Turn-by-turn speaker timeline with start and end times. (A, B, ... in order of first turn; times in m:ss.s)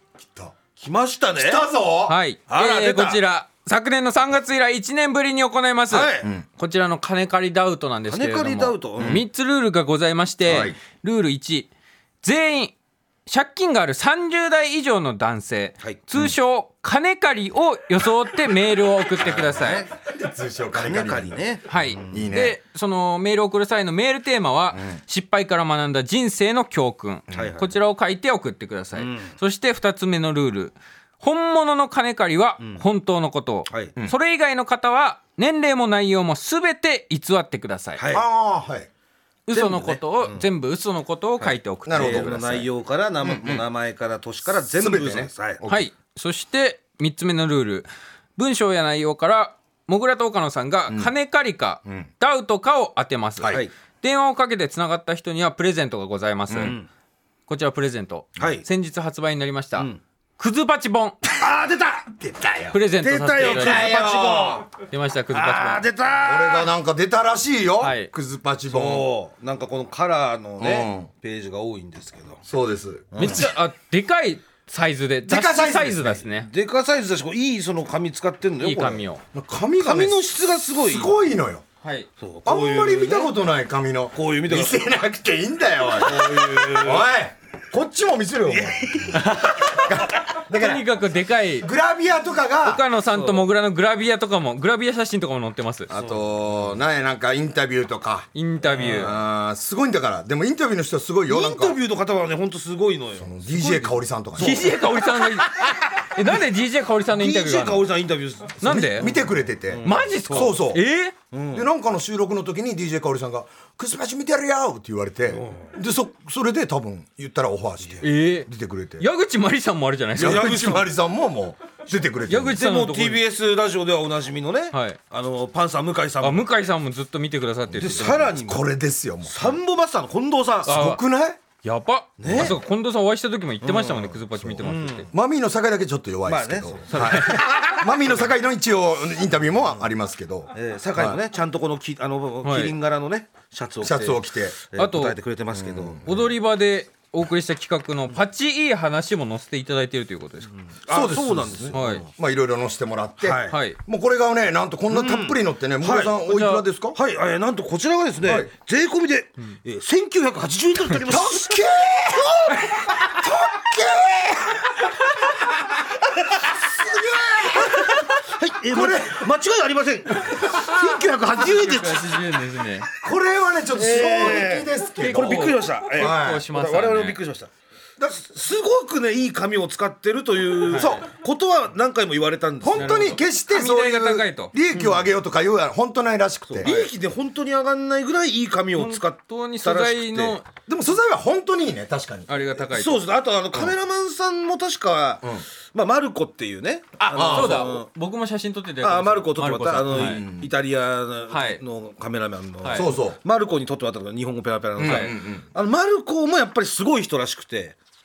0:00.2-0:00.6 A
0:00.8-0:01.7 B
0:01.4-0:02.2 A
0:02.1-0:11.7 C
0:02.5-0:03.2 B
0:05.9-0:06.3 B
0:08.1-0:09.2 B
0:09.0-0:09.2 A
0:10.5-0:10.8 A
0:12.2-0:12.8 C
0:13.3-0:19.8 C
0:19.2-0:19.9 B
0:19.3-0:21.4 A
0:20.7-0:22.2 B
0:21.7-0:38.0 C
0:22.0-0:22.6 A
0:27.3-0:27.7 B
0:29.0-0:29.3 B
0:33.7-0:33.9 B
0:38.0-0:38.3 B
0:38.1-0:38.9 A
0:39.5-0:42.6 C
0:39.5-0:40.5 B
0:41.4-0:45.6 B
0:41.9-0:42.6 A
0:43.2-0:43.7 A
0:44.7-0:45.9 A
0:45.7-0:56.8 C
0:53.4-0:53.7 A
0:56.5-0:56.9 B
0:57.5-1:01.2 C
0:58.4-0:58.6 B
1:01.4-1:02.2 B
1:02.2-1:02.8 A
1:02.7-1:03.9 C
1:03.0-1:04.7 B
1:03.4-1:04.6 A
1:04.8-1:05.8 C
1:05.3-1:06.7 B
1:06.2-1:09.1 A
1:07.8-1:08.1 C
1:08.7-1:12.4 B
1:10.6-1:11.1 A
1:12.4-1:13.5 A
1:13.1-1:13.5 B
1:13.2-1:16.5 C
1:15.2-1:16.2 A
1:16.4-1:19.0 B
1:18.6-1:19.2 C
1:19.3-1:20.2 A
1:19.8-1:21.2 B
1:20.9-1:21.6 A
1:21.8-1:22.1 C
1:22.2-1:23.4 B
1:22.5-1:31.0 A
1:24.1-1:25.0 B
1:26.0-1:27.1 B
1:28.5-1:29.7 B
1:29.2-1:29.9 C
1:30.5-1:31.7 C
1:31.6-1:32.8 A
1:32.6-1:35.9 C
1:33.1-1:33.4 B
1:35.9-1:38.3 A
1:35.9-1:36.4 B
1:38.3-1:39.1 C
1:38.7-1:39.1 B
1:38.9-1:41.8 A
1:41.3-1:45.7 B
1:43.2-1:44.7 A
1:44.4-1:47.8 C
1:47.1-1:50.4 B
1:48.6-1:50.8 A
1:48.6-1:49.1 C
1:49.8-1:51.2 C
1:51.3-1:51.7 B
1:51.5-1:59.1 A
1:55.3-1:55.7 B
1:58.0-1:58.5 C
1:59.0-2:00.8 C
2:00.2-2:02.6 A
2:00.2-2:00.9 B
2:02.3-2:03.2 C
2:02.5-2:06.5 B
2:04.7-2:05.0 C
2:06.2-2:08.2 C
2:07.7-2:09.6 A
2:07.8-2:08.7 B
2:09.2-2:10.8 B
2:10.7-2:11.0 C
2:10.7-2:11.4 A
2:11.6-2:15.1 C
2:12.2-2:12.6 B
2:12.3-2:12.6 A
2:13.6-2:15.1 B
2:14.3-2:21.2 A
2:16.3-2:18.2 B
2:16.9-2:17.4 C
2:20.5-2:26.0 B
2:22.4-2:22.7 C
2:23.8-2:24.6 A
2:24.8-2:25.2 C
2:25.5-2:26.3 A
2:26.0-2:30.5 C
2:30.6-2:32.1 B
2:30.9-2:37.0 A
2:31.7-2:32.0 C
2:33.2-2:33.6 B
2:33.5-2:33.8 C
2:34.9-2:36.2 B
2:36.3-2:36.6 C
2:36.9-2:41.6 B
2:38.2-2:38.5 A
2:41.1-2:44.9 A
2:46.5-2:48.0 A
2:47.8-2:52.2 B
2:48.7-2:49.3 A
2:51.4-2:52.9 C
2:53.0-2:56.5 A
2:53.8-2:57.5 B
2:55.0-2:57.2 C
2:58.0-3:03.0 B
3:00.7-3:01.0 C
3:00.7-3:01.0 A
3:02.6-3:06.7 A
3:02.7-3:04.6 C
3:06.5-3:10.4 B
3:06.6-3:06.9 C
3:08.8-3:10.4 C
3:10.7-3:12.3 A
3:12.3-3:13.0 C
3:12.7-3:17.9 B
3:17.1-3:17.7 A
3:17.1-3:20.2 C
3:18.8-3:27.8 B
3:19.9-3:20.5 A
3:21.3-3:21.6 C
3:22.6-3:22.9 C
3:22.7-3:23.2 A
3:24.8-3:25.5 A
3:24.8-3:25.2 C